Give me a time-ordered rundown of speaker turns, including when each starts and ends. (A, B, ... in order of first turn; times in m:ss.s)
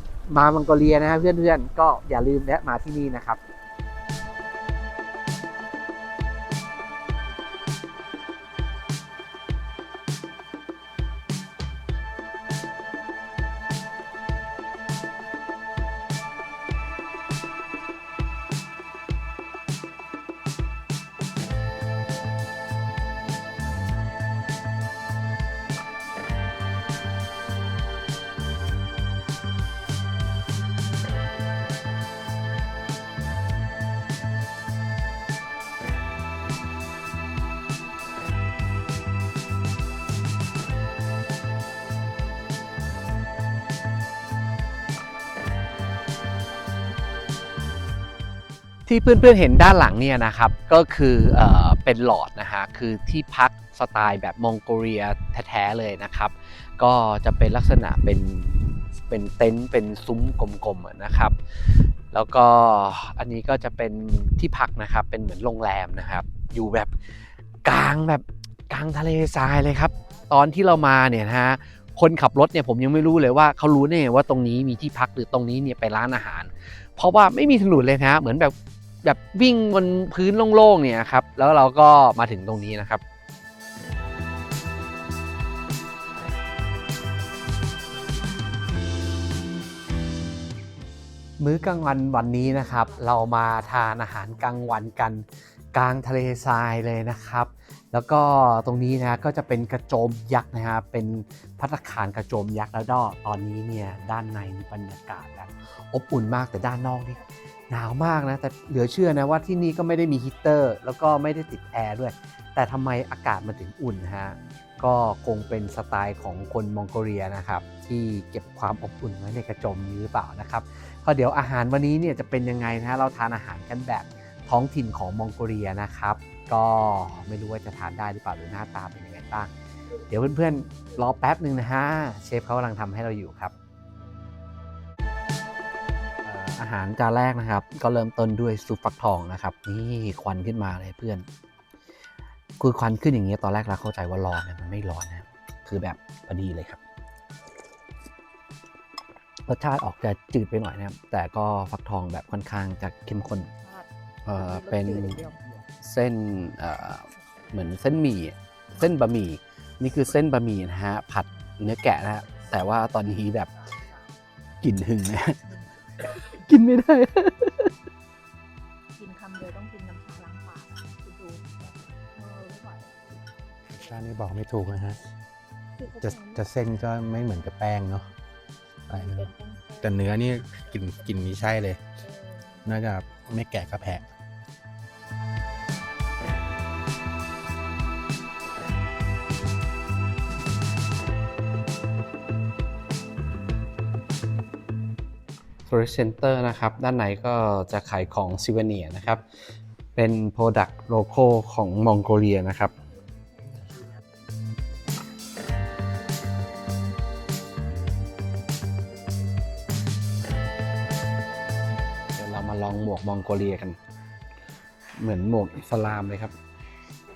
0:00.3-0:03.4 A
0:48.9-1:06.9 A
1:07.6-1:23.0 A
1:31.4-2:09.5 A
2:10.1-2:13.5 A
2:16.2-2:21.2 A
2:22.6-2:26.8 A
2:29.5-2:33.5 A
2:33.5-2:33.9 B
2:34.2-2:35.2 A
2:34.4-2:35.5 B
2:35.8-2:43.5 A
2:44.6-2:45.4 A
2:46.0-2:47.7 A
2:49.0-2:51.5 B
2:52.2-2:53.1 B
2:53.8-2:55.0 C
2:55.8-2:56.5 B
2:56.0-2:58.1 C
2:58.9-3:00.0 B
2:58.9-2:59.3 C
2:59.8-3:01.8 C
3:00.7-3:01.1 B
3:02.0-3:02.7 B
3:02.7-3:04.0 C
3:15.7-3:19.2 A
3:20.0-3:22.7 A
3:32.2-3:33.8 A
3:35.0-3:36.3 A